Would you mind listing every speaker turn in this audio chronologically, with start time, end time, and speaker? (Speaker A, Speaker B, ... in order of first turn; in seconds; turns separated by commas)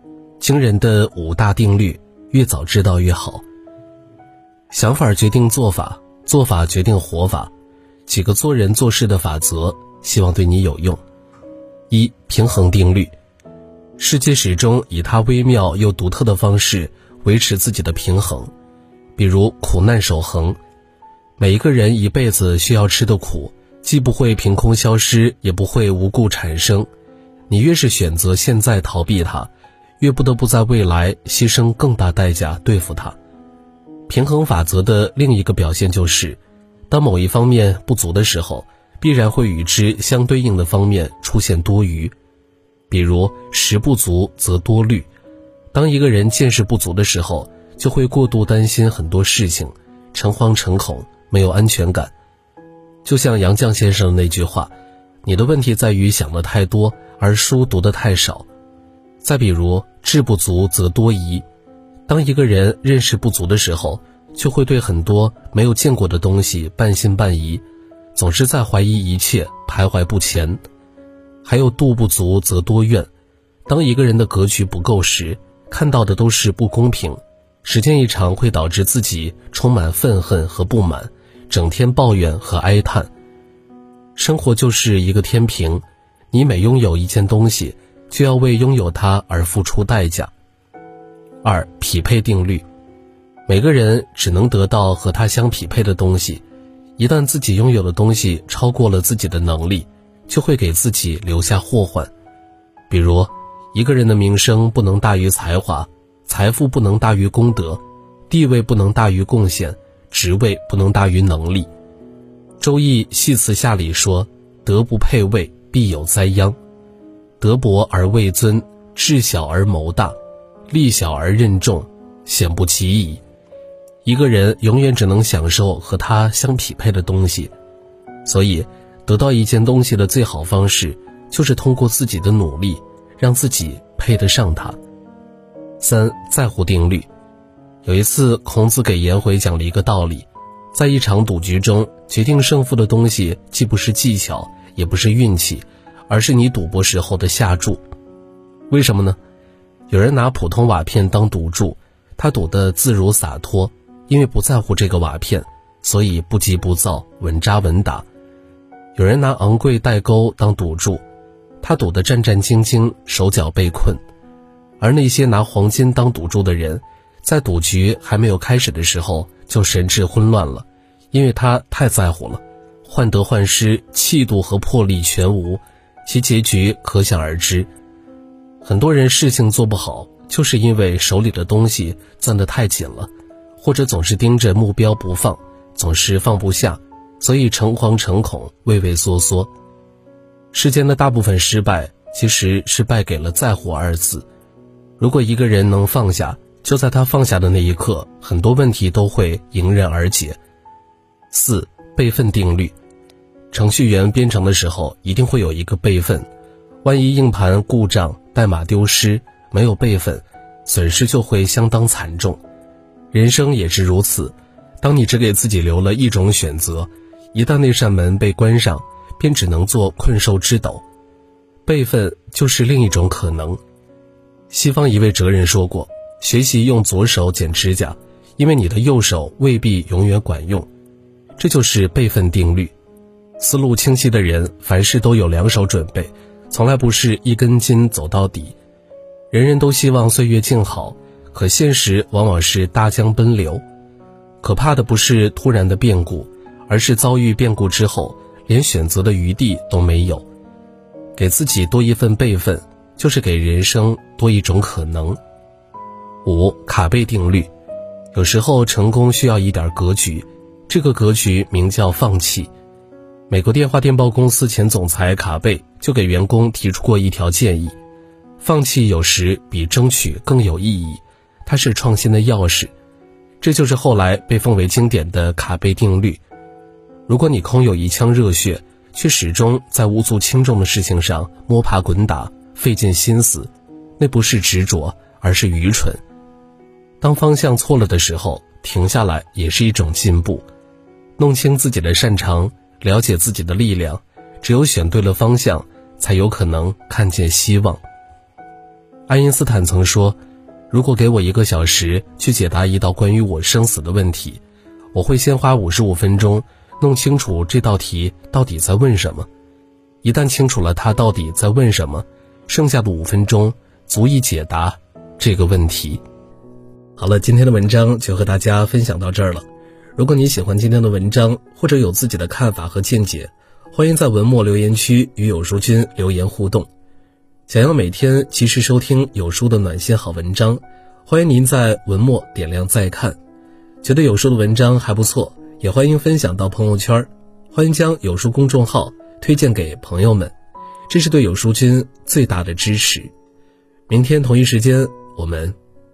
Speaker A: 0.4-3.4, Speaker A: 4.7-7.5, Speaker A: 8.1-11.0, Speaker A: 11.9-13.1, Speaker A: 14.0-18.5, Speaker A: 19.1-20.6, Speaker A: 21.4-26.9, Speaker A: 27.5-33.1, Speaker A: 34.1-42.1, Speaker A: 42.9-45.1, Speaker A: 45.7-52.1, Speaker A: 53.0-54.7, Speaker A: 55.2-58.5, Speaker A: 59.2-61.4, Speaker A: 62.1-67.6, Speaker A: 68.1-70.6, Speaker A: 71.4-73.1, Speaker A: 73.7-83.1, Speaker A: 84.2-90.3, Speaker A: 91.4-92.6, Speaker A: 93.5-96.4, Speaker A: 97.0-102.1, Speaker A: 102.9-111.7, Speaker A: 112.6-116.5, Speaker A: 117.4-120.1, Speaker A: 120.7-123.2, Speaker A: 124.0-127.5, Speaker A: 128.2-134.8, Speaker A: 135.8-137.1, Speaker A: 137.8-147.8, Speaker A: 148.7-149.2, Speaker A: 149.9-158.0, Speaker A: 158.9-161.0, Speaker A: 161.6-164.0, Speaker A: 164.8-177.7, Speaker A: 178.6-189.5, Speaker A: 190.5-194.2, Speaker A: 195.0-200.4, Speaker A: 201.3-202.7, Speaker A: 203.5-206.3, Speaker A: 206.8-212.4, Speaker A: 213.1-220.8, Speaker A: 221.7-223.6, Speaker A: 224.5-230.7, Speaker A: 231.4-232.7, Speaker A: 233.4-238.5, Speaker A: 239.3-243.6, Speaker A: 244.4-250.2, Speaker A: 251.2-255.2, Speaker A: 256.2-257.5, Speaker A: 258.1-262.5, Speaker A: 263.3-267.7, Speaker A: 268.4-272.7, Speaker A: 273.4-276.2, Speaker A: 277.1-286.0, Speaker A: 287.0-290.4, Speaker A: 291.2-297.8, Speaker A: 299.1-300.2, Speaker A: 300.7-304.4, Speaker A: 304.9-309.3, Speaker A: 310.0-316.0, Speaker A: 317.0-326.7, Speaker A: 327.5-333.2, Speaker A: 333.8-340.3, Speaker A: 340.9-343.1, Speaker A: 343.9-345.6